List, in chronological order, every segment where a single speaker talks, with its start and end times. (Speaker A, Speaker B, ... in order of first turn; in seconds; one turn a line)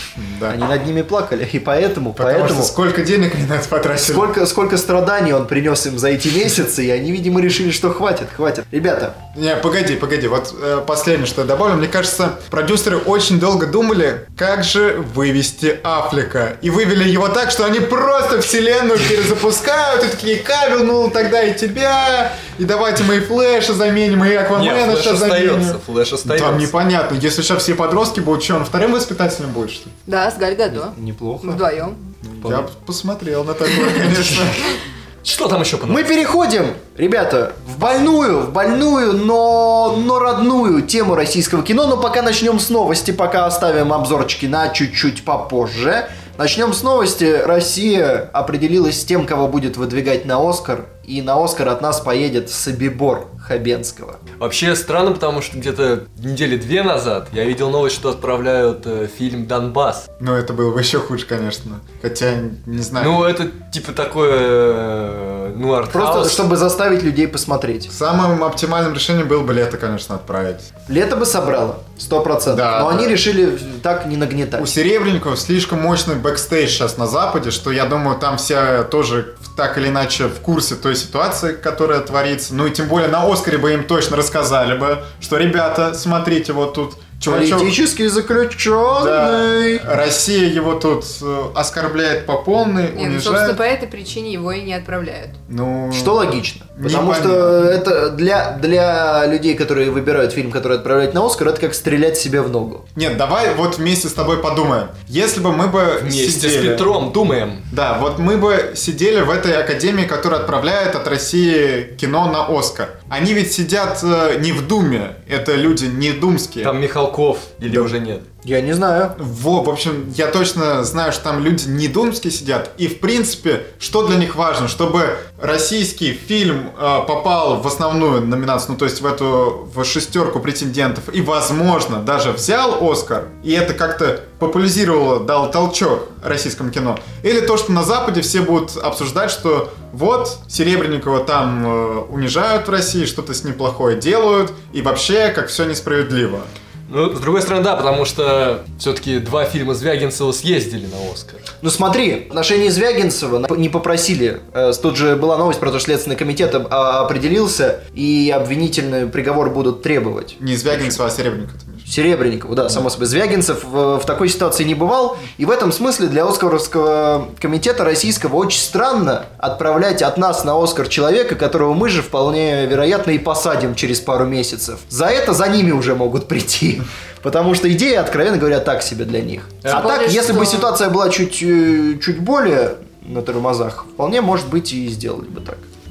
Speaker A: 0.1-0.6
Speaker B: 0.5-2.7
Speaker A: 2.1-4.3
Speaker B: 4.0-9.2
Speaker A: 9.3-29.9
Speaker C: 24.5-26.7
Speaker D: 30.1-32.0
Speaker B: 30.7-31.6
Speaker A: 32.2-34.8
Speaker C: 34.0-34.4
Speaker C: 35.2-36.2
Speaker B: 35.9-54.2
Speaker C: 54.4-60.1
Speaker A: 60.2-63.2
Speaker C: 63.0-66.5
Speaker B: 65.9-67.9
Speaker A: 67.9-70.7
Speaker B: 70.9-74.7
Speaker A: 72.5-73.2
Speaker A: 74.6-87.8
Speaker B: 87.2-89.8
Speaker A: 88.9-93.6
Speaker D: 92.9-95.4
Speaker A: 95.5-97.9
Speaker B: 95.9-102.8
Speaker A: 102.9-106.9
Speaker C: 106.0-107.6
Speaker A: 107.7-116.7
Speaker C: 116.6-118.2
Speaker A: 117.7-118.0
Speaker B: 118.4-119.2
Speaker A: 119.2-146.5
Speaker C: 146.9-151.4
Speaker B: 151.6-160.9
Speaker A: 160.4-161.9
Speaker B: 161.8-185.6
Speaker C: 179.6-179.9
Speaker D: 179.7-180.7